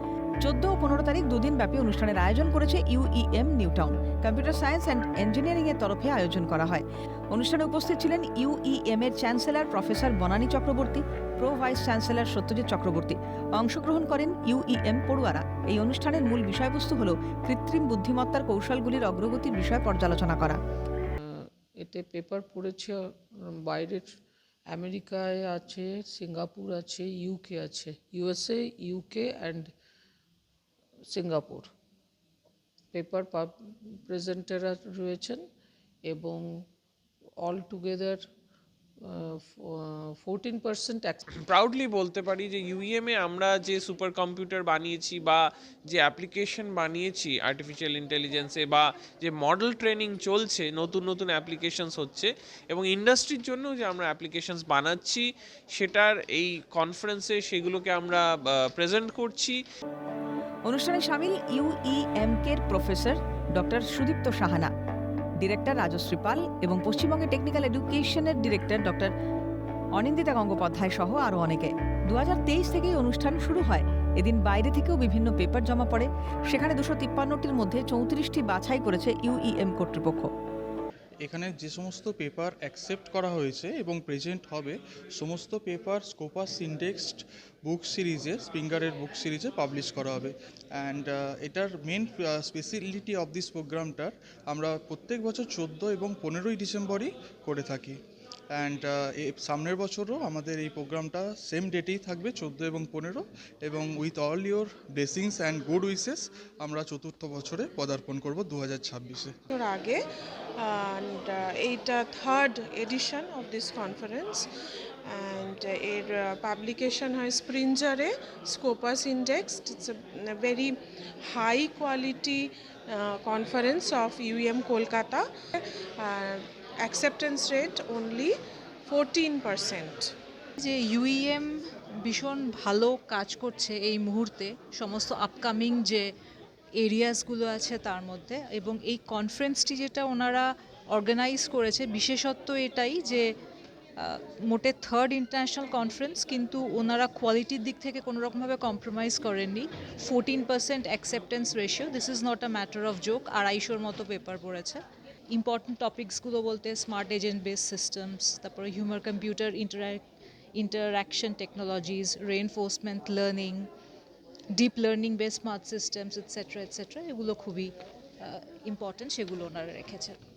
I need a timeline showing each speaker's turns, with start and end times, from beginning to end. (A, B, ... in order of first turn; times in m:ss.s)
0:00.4-0:20.6 A
0:21.2-0:24.2 B
0:24.7-0:29.7 B
0:31.1-0:31.7 B
0:32.9-0:35.4 B
0:36.0-0:36.6 B
0:37.4-0:38.3 B
0:39.0-0:41.2 B
0:41.4-0:59.6 C
1:00.7-1:04.7 A
1:05.4-1:09.1 A
1:10.0-1:20.3 A
1:21.2-1:38.0 D
1:38.5-1:49.4 D
1:49.5-1:50.0 E
1:50.6-1:54.5 E
1:55.1-2:08.4 E
2:08.9-2:10.1 E
2:10.6-2:16.1 F
2:16.8-2:23.3 F
2:24.0-2:40.0 F
2:40.6-2:43.7 F
2:44.5-2:50.2 F